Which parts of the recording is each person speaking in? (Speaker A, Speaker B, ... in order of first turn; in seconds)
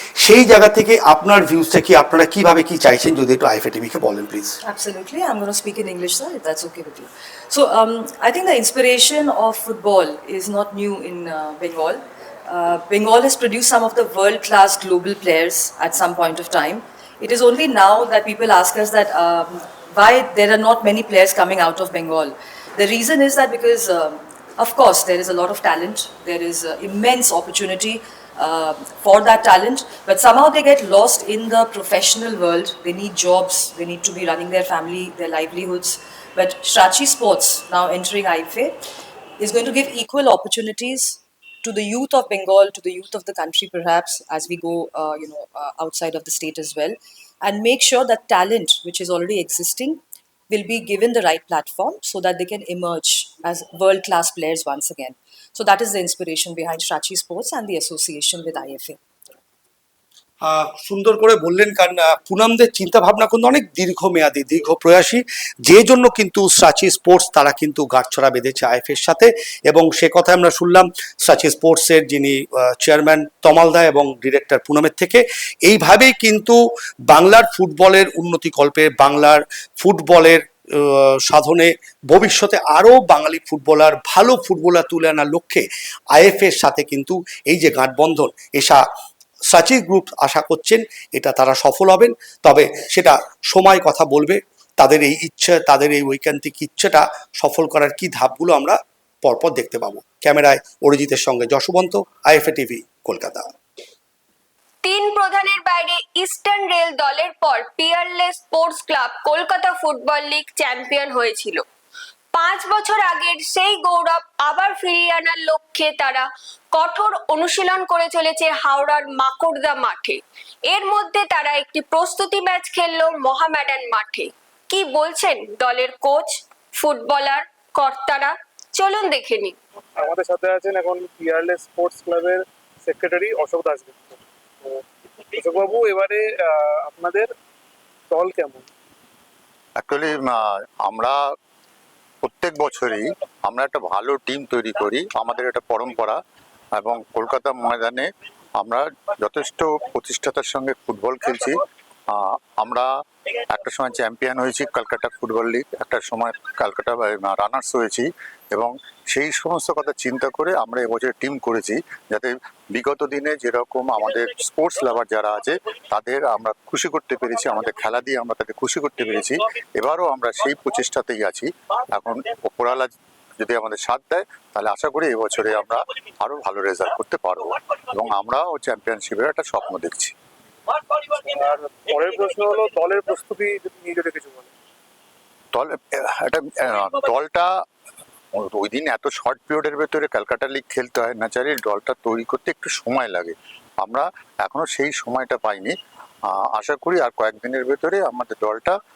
Speaker A: 0.2-4.5, 60.4-88.8, 89.5-103.5
Speaker B: 4.6-38.8, 39.4-59.0
Speaker C: 104.8-111.6, 112.3-129.6
Speaker D: 130.0-134.8, 135.3-137.3, 138.1-138.6, 181.1-184.5
Speaker E: 139.8-141.2, 142.2-146.2, 146.8-148.1, 148.6-152.9, 153.5-180.1, 185.5-187.5, 188.3-195.7, 196.3-198.8